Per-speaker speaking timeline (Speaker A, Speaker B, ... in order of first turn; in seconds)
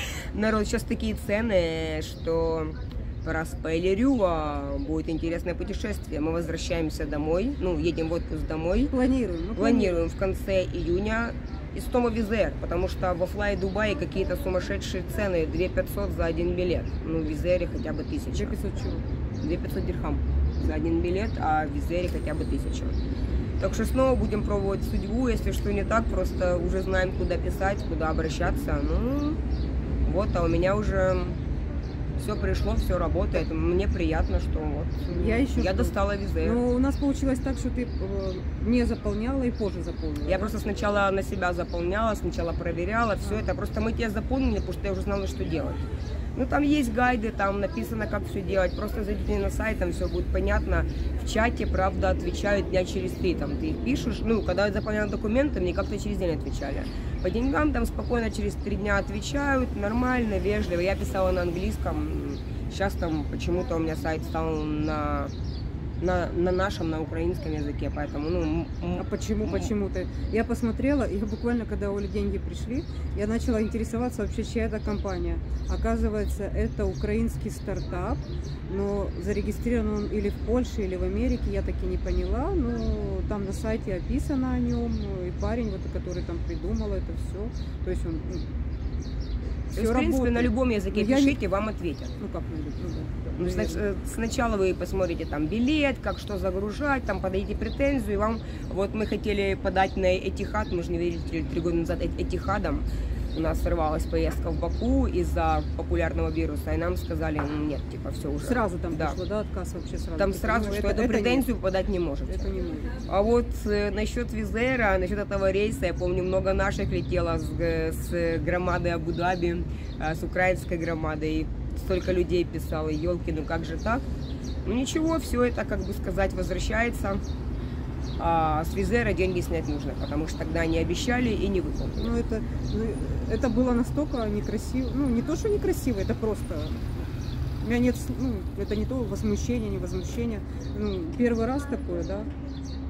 Speaker A: 0.3-8.9, 9.6-18.6, 19.4-23.0, 23.6-29.4, 30.1-31.4, 32.2-36.6, 40.3-45.8, 46.4-65.3, 66.0-69.7, 89.7-92.2, 93.4-109.2, 110.2-112.5, 113.0-124.1, 124.7-127.2, 128.2-132.1
Speaker B: 8.9-10.0, 18.3-19.0, 35.1-40.6, 69.0-88.5, 89.7-91.4, 92.2-93.8, 108.4-111.5, 112.3-113.0, 132.0-137.1, 137.6-142.3